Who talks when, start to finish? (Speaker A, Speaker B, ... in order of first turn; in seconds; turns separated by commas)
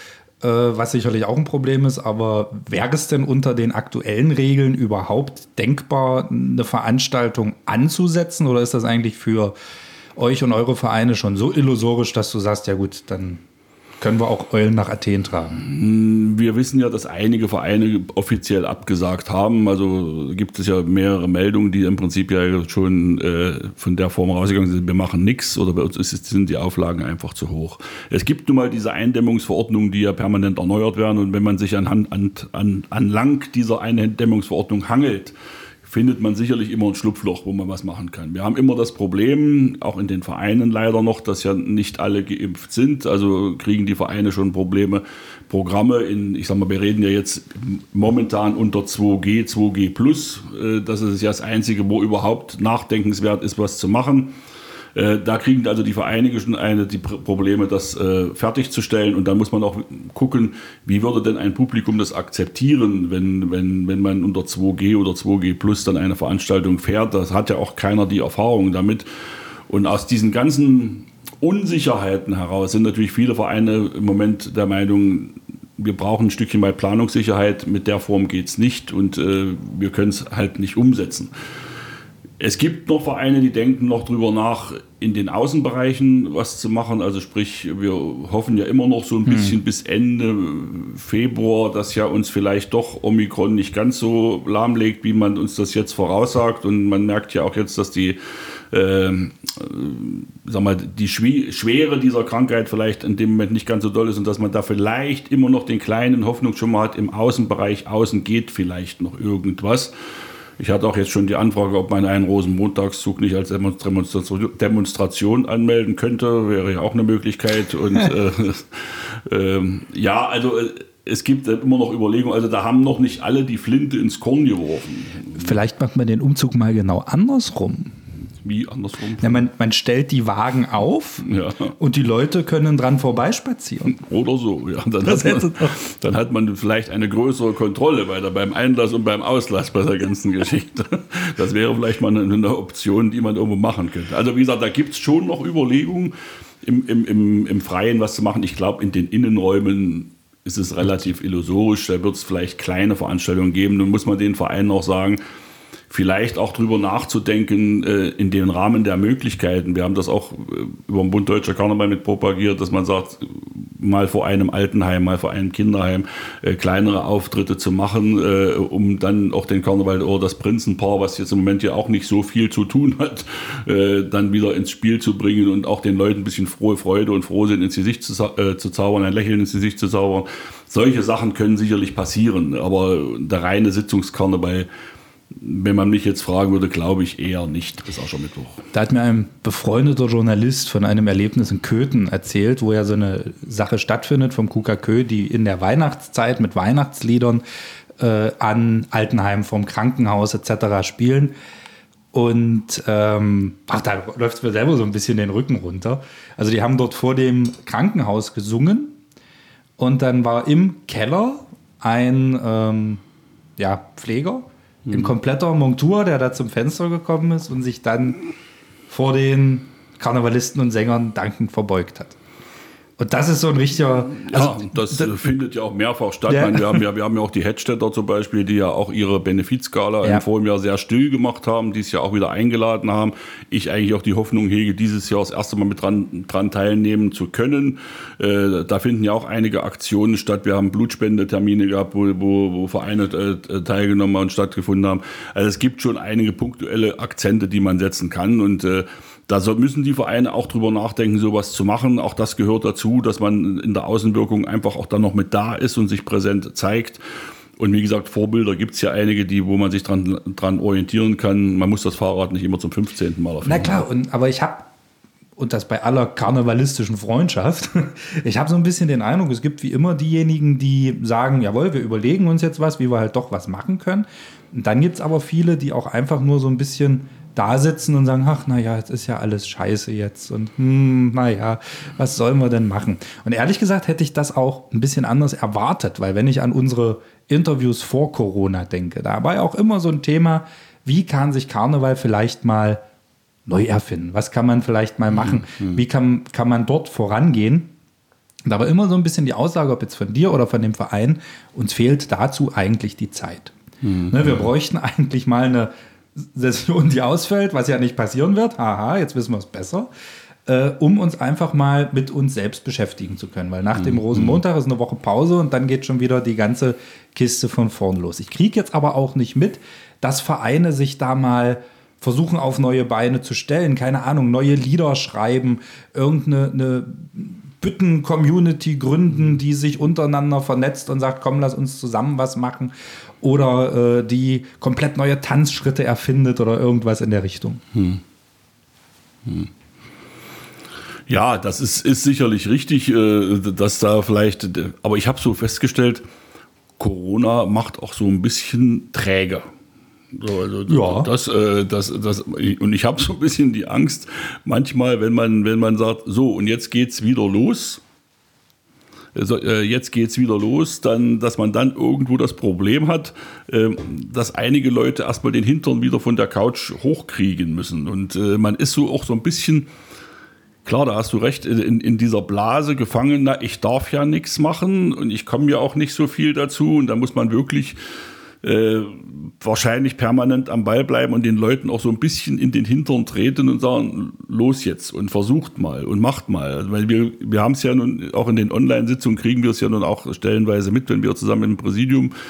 Speaker A: 0.4-9.6, Speaker A: 10.2-13.4, Speaker A: 14.0-15.6, Speaker B: 15.6-35.3, Speaker B: 35.9-54.4, Speaker B: 55.0-69.1, Speaker B: 69.7-81.3, Speaker B: 82.4-98.2, Speaker A: 89.3-89.6, Speaker B: 98.7-109.9, Speaker B: 110.6-125.6, Speaker A: 125.3-128.0, Speaker B: 128.4-129.4, Speaker A: 129.2-134.0, Speaker B: 131.2-131.7, Speaker B: 133.9-155.2, Speaker A: 135.1-135.7, Speaker B: 155.9-184.7, Speaker B: 185.3-188.6, Speaker A: 188.7-197.4, Speaker A: 198.0-201.3, Speaker A: 202.1-209.0, Speaker A: 209.8-213.0, Speaker A: 213.6-218.2, Speaker B: 214.9-215.1, Speaker A: 218.9-222.2, Speaker A: 223.0-225.2, Speaker B: 224.2-257.0, Speaker A: 226.3-226.8, Speaker B: 257.6-263.9, Speaker A: 263.4-264.7, Speaker A: 265.4-292.8, Speaker A: 293.5-297.7, Speaker B: 295.4-295.8, Speaker A: 298.4-309.9, Speaker B: 303.8-304.4, Speaker A: 310.5-337.6, Speaker B: 313.8-314.4, Speaker B: 337.7-338.0, Speaker B: 341.1-346.0, Speaker B: 346.8-349.4, Speaker B: 350.1-357.8, Speaker A: 350.7-351.1, Speaker B: 359.1-369.7, Speaker B: 370.6-377.8, Speaker B: 378.4-392.1